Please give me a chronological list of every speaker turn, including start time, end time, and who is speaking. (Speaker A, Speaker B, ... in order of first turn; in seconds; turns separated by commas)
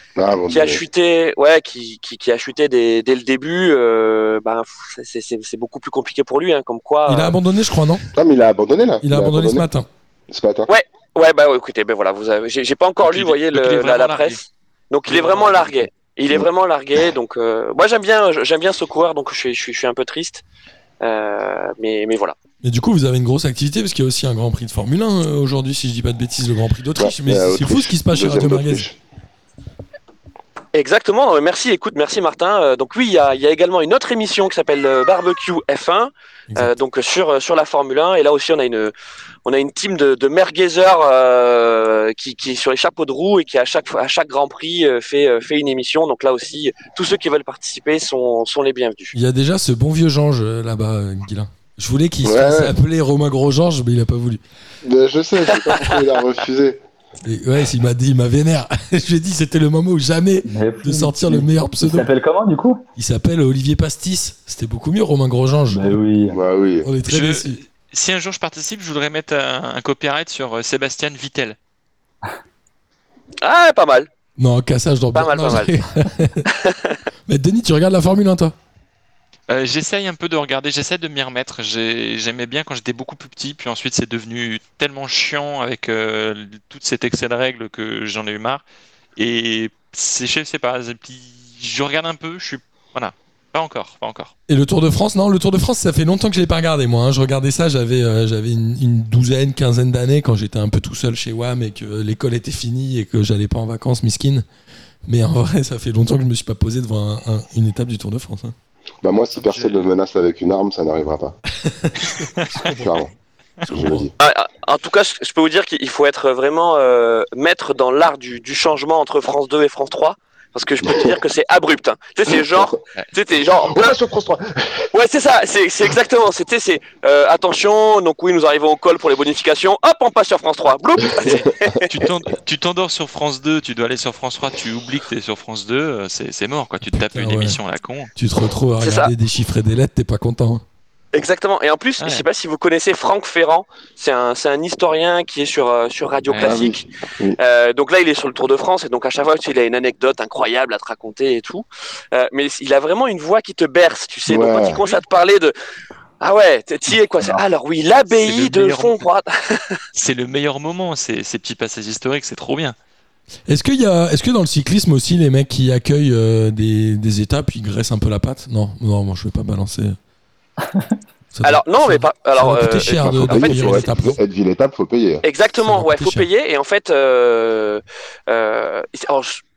Speaker A: 0.2-0.8, Speaker B: 0.5-7.4, Speaker C: 7.1-8.1, Speaker A: 8.1-9.7, Speaker C: 9.0-9.9, Speaker A: 10.3-10.7, Speaker B: 10.7-20.4, Speaker D: 13.0-14.4, Speaker D: 15.1-15.9, Speaker B: 21.0-22.4, Speaker C: 22.6-28.9, Speaker A: 27.0-29.0, Speaker B: 30.7-38.9, Speaker B: 39.5-49.1, Speaker C: 49.1-54.4, Speaker A: 52.2-52.7, Speaker A: 54.8-56.8, Speaker C: 57.2-62.1, Speaker E: 60.5-62.8, Speaker C: 63.0-66.0, Speaker E: 65.7-66.4, Speaker A: 66.3-66.9, Speaker C: 66.8-67.6, Speaker D: 67.1-71.6, Speaker B: 73.4-74.1, Speaker C: 74.4-76.5, Speaker B: 75.1-75.7, Speaker B: 76.5-77.0, Speaker C: 77.3-78.5, Speaker D: 79.5-88.6, Speaker D: 89.2-94.3, Speaker C: 94.5-104.5, Speaker C: 105.0-108.5, Speaker A: 109.0-111.4, Speaker D: 109.4-109.9, Speaker C: 111.6-113.0, Speaker A: 112.7-113.1, Speaker C: 113.7-114.1, Speaker A: 113.7-114.1, Speaker B: 114.2-124.0, Speaker A: 120.8-121.1, Speaker A: 123.6-124.9, Speaker B: 124.9-131.8, Speaker D: 131.2-138.1, Speaker C: 136.9-137.6, Speaker C: 138.2-140.6, Speaker B: 138.8-139.1, Speaker B: 141.1-146.9, Speaker D: 142.0-142.2, Speaker D: 146.3-146.6, Speaker A: 146.4-147.4, Speaker B: 147.4-155.5, Speaker A: 154.3-154.8, Speaker B: 156.2-159.8, Speaker D: 158.1-159.0, Speaker D: 159.9-162.8, Speaker C: 163.5-170.0, Speaker C: 171.3-174.2, Speaker B: 171.4-173.9, Speaker A: 173.0-175.2, Speaker B: 175.2-179.4, Speaker C: 175.5-176.3